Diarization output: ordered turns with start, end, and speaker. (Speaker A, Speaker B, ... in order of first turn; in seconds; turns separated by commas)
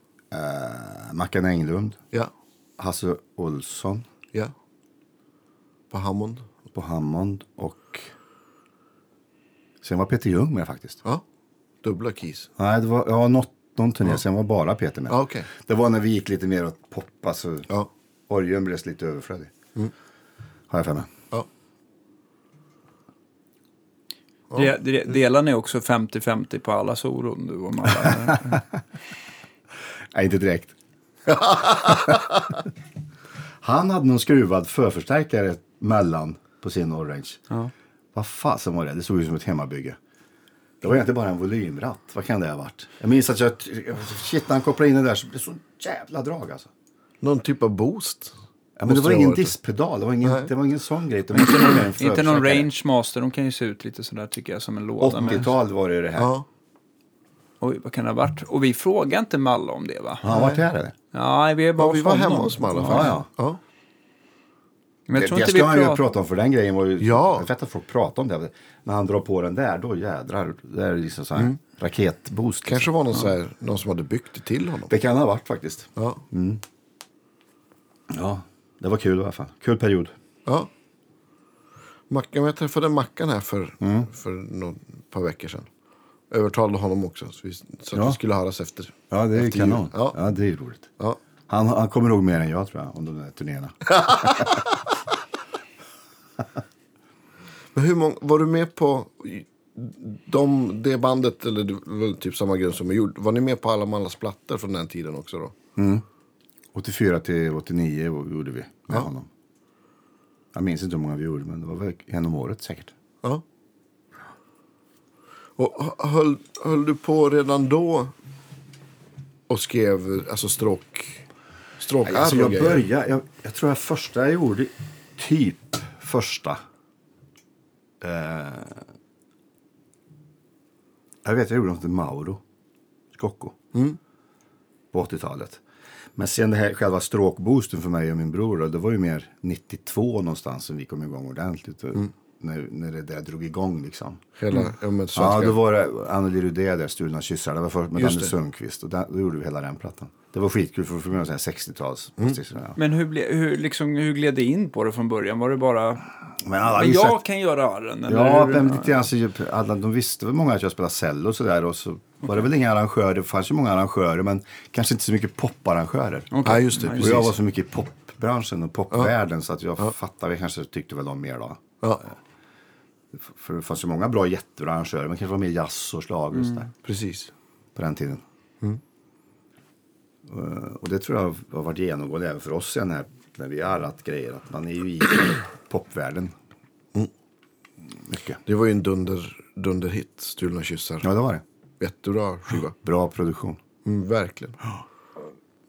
Speaker A: 0.3-2.0, Speaker A: 2.8-4.1, Speaker B: 5.9-6.5, Speaker A: 6.7-8.1, Speaker A: 9.8-11.0, Speaker B: 11.8-12.5, Speaker A: 12.6-17.7, Speaker B: 15.1-15.5, Speaker A: 18.3-19.5, Speaker A: 20.7-21.1, Speaker C: 24.5-28.6, Speaker A: 30.1-30.8, Speaker A: 31.4-32.3, Speaker A: 33.6-37.4, Speaker A: 38.1-40.0, Speaker A: 40.8-46.7, Speaker B: 47.2-48.4, Speaker A: 48.8-52.7, Speaker B: 48.9-49.5, Speaker B: 50.2-50.5, Speaker C: 51.3-55.5, Speaker A: 55.0-56.3, Speaker B: 56.2-56.5, Speaker C: 57.6-60.3, Speaker A: 60.2-61.0, Speaker B: 60.3-60.6, Speaker C: 61.1-63.2, Speaker B: 61.8-63.6, Speaker A: 62.8-63.3, Speaker C: 65.1-66.0, Speaker A: 65.2-72.9, Speaker B: 67.0-67.5, Speaker B: 72.7-74.9, Speaker A: 74.9-76.6, Speaker B: 76.0-76.2, Speaker A: 78.1-80.1, Speaker B: 82.1-85.7, Speaker A: 83.8-84.1, Speaker B: 86.3-90.2, Speaker A: 87.9-88.2, Speaker A: 89.1-90.9, Speaker A: 91.5-94.7, Speaker B: 97.8-105.6, Speaker A: 105.8-106.0, Speaker A: 106.7-109.3, Speaker A: 110.5-112.9, Speaker B: 115.6-118.1, Speaker B: 119.5-121.2, Speaker B: 121.8-122.8, Speaker A: 122.0-126.6, Speaker A: 128.0-128.9, Speaker A: 131.2-132.4, Speaker A: 133.1-133.6, Speaker A: 134.9-135.6, Speaker A: 136.2-144.2, Speaker B: 144.4-145.6, Speaker A: 145.2-152.8, Speaker B: 148.0-148.3, Speaker C: 152.8-156.1, Speaker A: 156.4-157.2, Speaker C: 156.6-158.9, Speaker A: 158.1-166.3, Speaker C: 166.3-167.3, Speaker B: 166.4-167.3, Speaker A: 167.0-172.2, Speaker A: 173.2-176.7, Speaker C: 176.4-176.6, Speaker B: 176.8-177.3, Speaker A: 177.8-178.2, Speaker A: 180.3-186.3, Speaker A: 188.1-188.4, Speaker B: 188.4-191.1, Speaker A: 191.0-191.4, Speaker B: 191.8-192.8, Speaker A: 192.8-193.6, Speaker B: 193.8-194.6